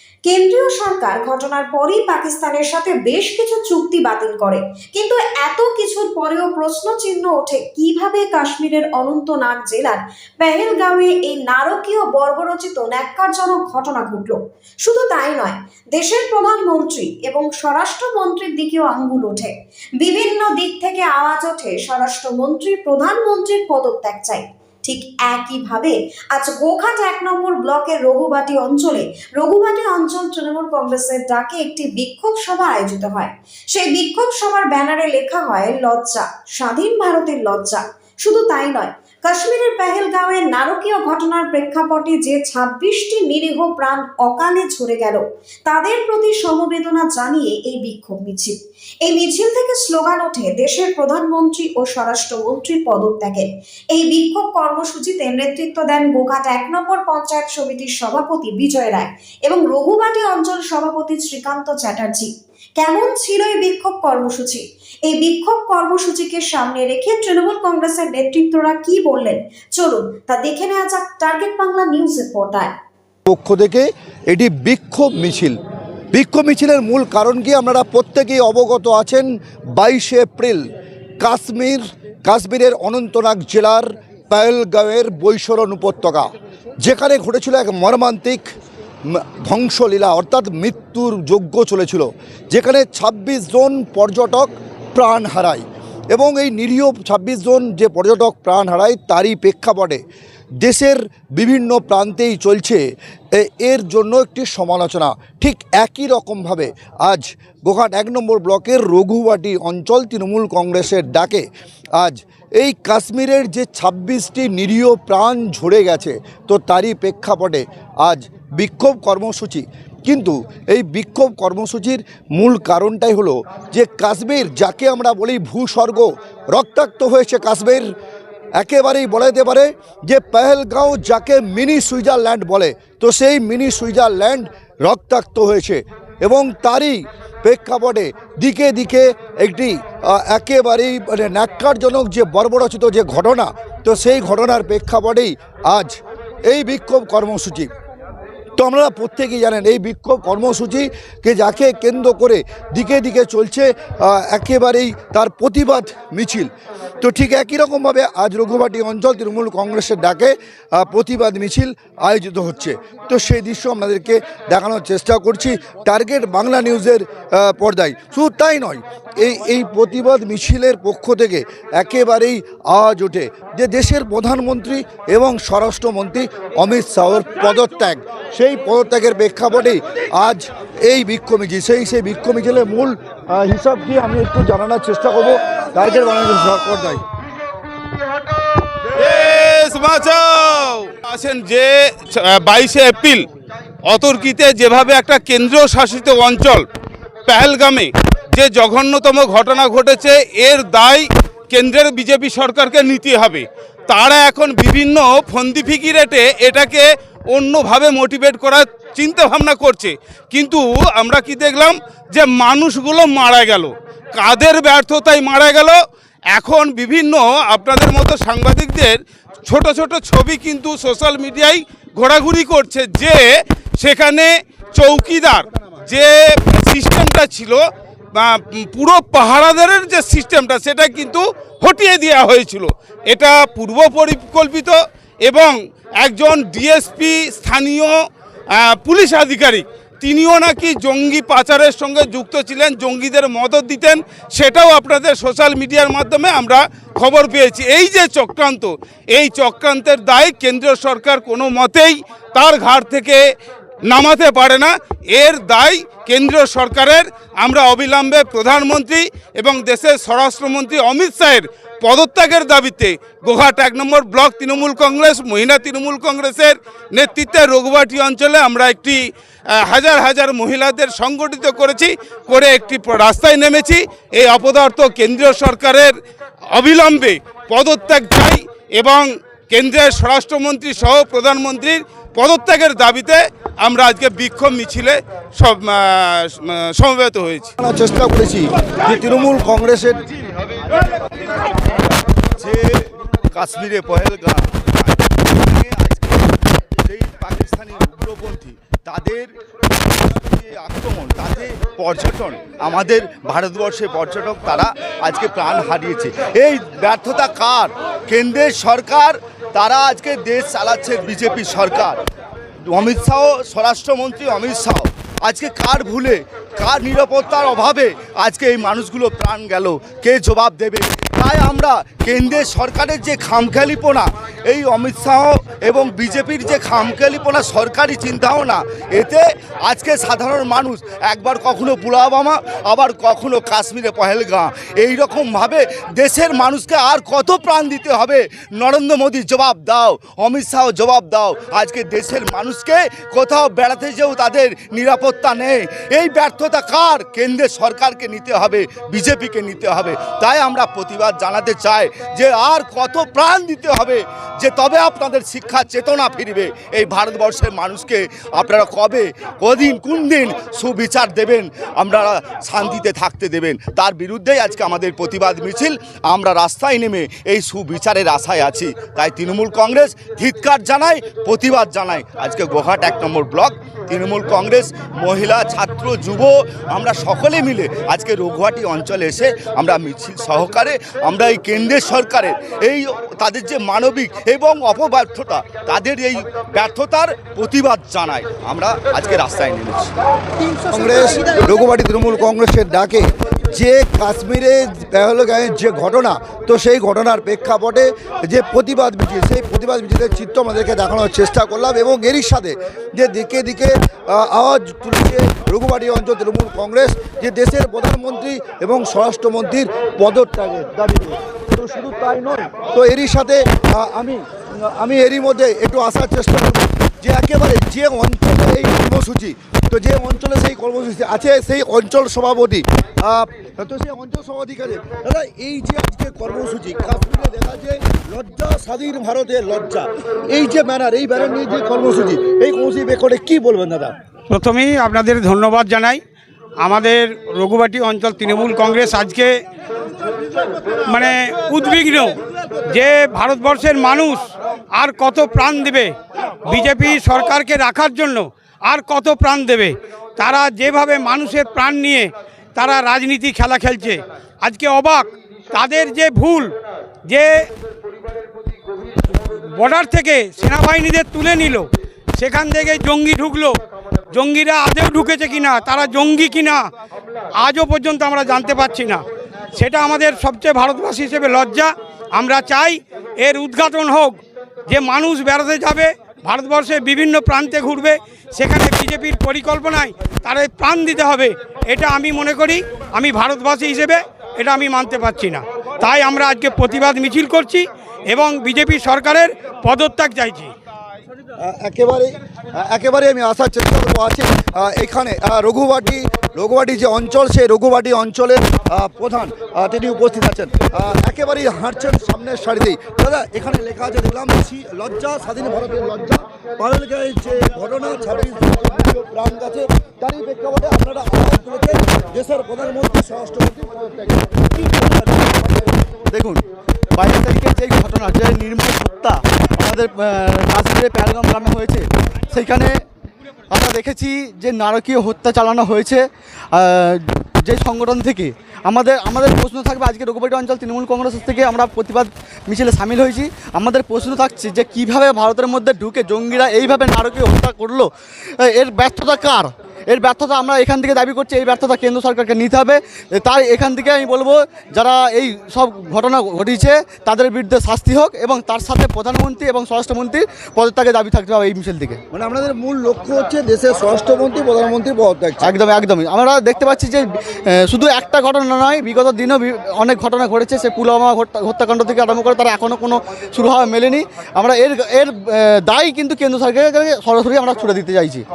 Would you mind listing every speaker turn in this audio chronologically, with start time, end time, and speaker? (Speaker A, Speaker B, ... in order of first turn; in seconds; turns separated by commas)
Speaker A: 0.2-72.7, Speaker B: 73.3-75.5, Speaker B: 76.1-80.6, Speaker B: 81.2-86.3, Speaker B: 86.8-88.4, Speaker B: 89.1-100.0, Speaker B: 100.6-102.8, Speaker B: 103.3-111.5, Speaker B: 112.0-127.8, Speaker B: 128.6-147.7, Speaker B: 148.6-156.5, Speaker B: 157.0-187.0, Speaker C: 189.0-193.3, Speaker C: 193.9-196.6, Speaker C: 197.3-215.8, Speaker C: 216.3-223.2, Speaker C: 223.8-227.6, Speaker C: 228.2-237.9, Speaker C: 238.6-253.2, Speaker C: 253.9-269.0, Speaker C: 269.7-275.9, Speaker C: 276.5-287.5, Speaker B: 287.6-290.0, Speaker D: 293.4-296.3, Speaker B: 293.4-294.9, Speaker B: 295.6-295.9, Speaker D: 296.9-299.2, Speaker B: 298.5-298.8, Speaker D: 300.3-312.0, Speaker B: 301.2-301.7, Speaker D: 312.7-329.1, Speaker B: 317.7-318.0, Speaker B: 325.1-327.5, Speaker B: 328.4-329.2, Speaker D: 329.7-338.1, Speaker B: 331.9-333.1, Speaker B: 333.6-337.3, Speaker B: 338.0-340.9, Speaker D: 338.7-345.4, Speaker B: 342.9-343.2, Speaker B: 344.0-347.7, Speaker D: 345.9-389.9, Speaker B: 351.7-352.0, Speaker B: 356.3-356.6, Speaker B: 363.3-363.7, Speaker B: 388.9-389.3, Speaker B: 390.7-433.9, Speaker E: 434.3-436.0, Speaker E: 436.6-439.3, Speaker E: 440.9-445.9, Speaker E: 446.4-456.5, Speaker E: 457.1-457.4, Speaker E: 459.5-463.5, Speaker E: 464.1-466.6, Speaker E: 467.4-490.5, Speaker B: 491.4-515.9, Speaker F: 516.1-522.8, Speaker F: 523.5-552.0, Speaker B: 552.1-555.5, Speaker F: 555.4-568.2